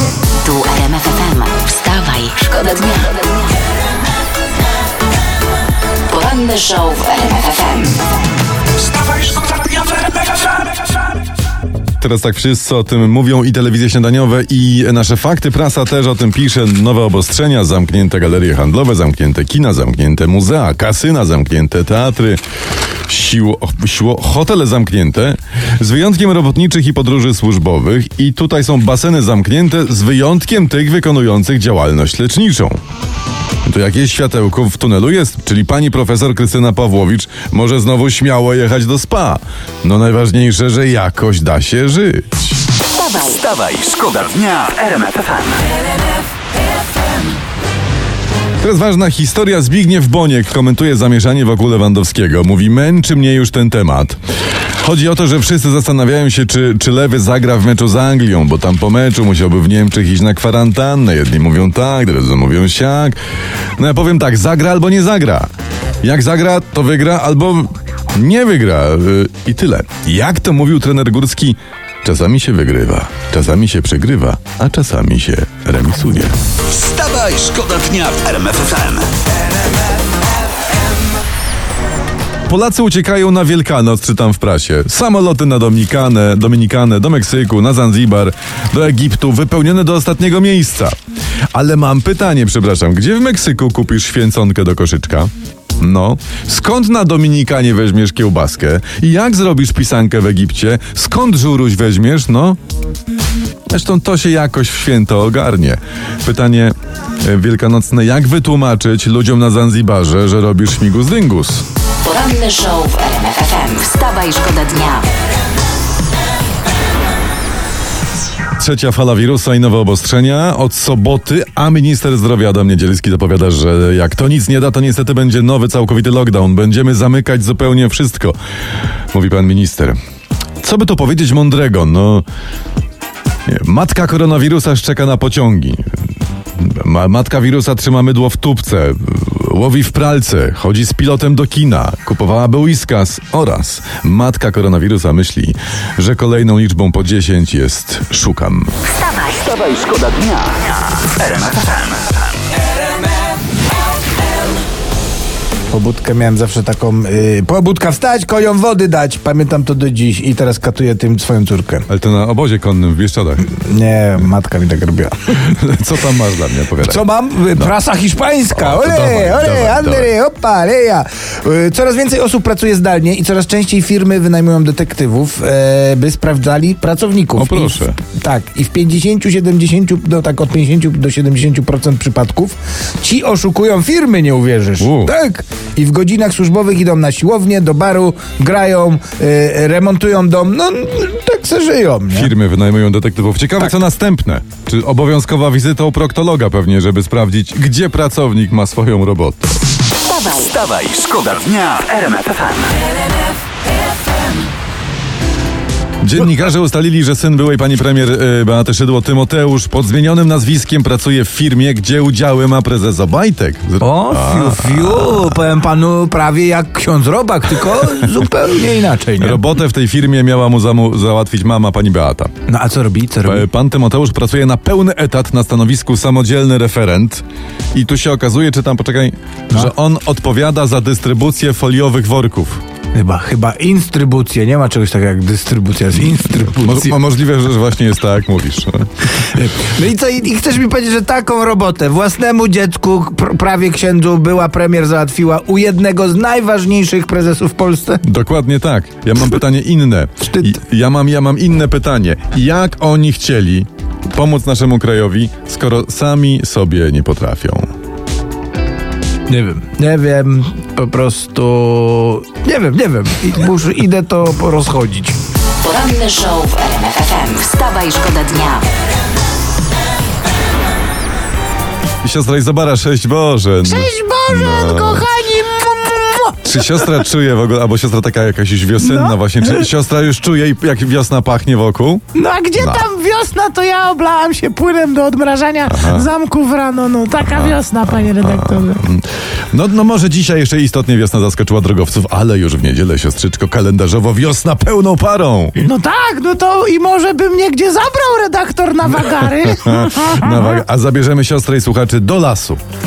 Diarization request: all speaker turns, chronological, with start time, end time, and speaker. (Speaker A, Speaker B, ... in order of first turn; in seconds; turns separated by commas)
Speaker A: 0.4-3.4, Speaker A: 6.1-8.0, Speaker B: 9.4-9.8, Speaker C: 12.0-22.4, Speaker C: 23.1-32.8, Speaker C: 33.7-42.6, Speaker A: 43.0-43.3, Speaker B: 43.0-45.6, Speaker C: 48.6-54.2, Speaker C: 54.8-63.2, Speaker C: 63.8-65.5, Speaker C: 66.0-76.3, Speaker B: 76.7-79.1, Speaker C: 82.5-91.0, Speaker C: 91.5-102.6, Speaker C: 103.7-111.6, Speaker A: 112.0-115.1, Speaker C: 118.6-128.4, Speaker C: 129.1-129.9, Speaker C: 130.6-132.2, Speaker C: 133.5-135.9, Speaker C: 136.6-148.7, Speaker A: 148.9-149.3, Speaker B: 149.2-152.1, Speaker D: 155.7-161.9, Speaker C: 161.9-163.6, Speaker D: 163.5-165.2, Speaker C: 165.3-167.7, Speaker D: 166.8-192.3, Speaker C: 168.5-170.1, Speaker C: 177.3-178.0, Speaker C: 184.8-185.1, Speaker C: 192.1-199.5, Speaker B: 200.1-202.8, Speaker C: 206.0-215.4, Speaker D: 213.8-219.4, Speaker C: 219.2-222.3, Speaker D: 222.5-223.5, Speaker C: 223.2-232.6, Speaker D: 232.9-237.0, Speaker C: 236.5-239.1, Speaker D: 239.3-248.0, Speaker C: 248.0-257.7, Speaker D: 259.3-265.2, Speaker A: 265.6-268.7, Speaker C: 272.0-275.1, Speaker E: 273.6-276.9, Speaker C: 276.4-282.0, Speaker E: 278.8-279.6, Speaker E: 282.1-288.8, Speaker C: 282.6-282.9, Speaker C: 285.7-286.1, Speaker C: 287.2-295.6, Speaker E: 295.6-300.6, Speaker C: 299.0-302.6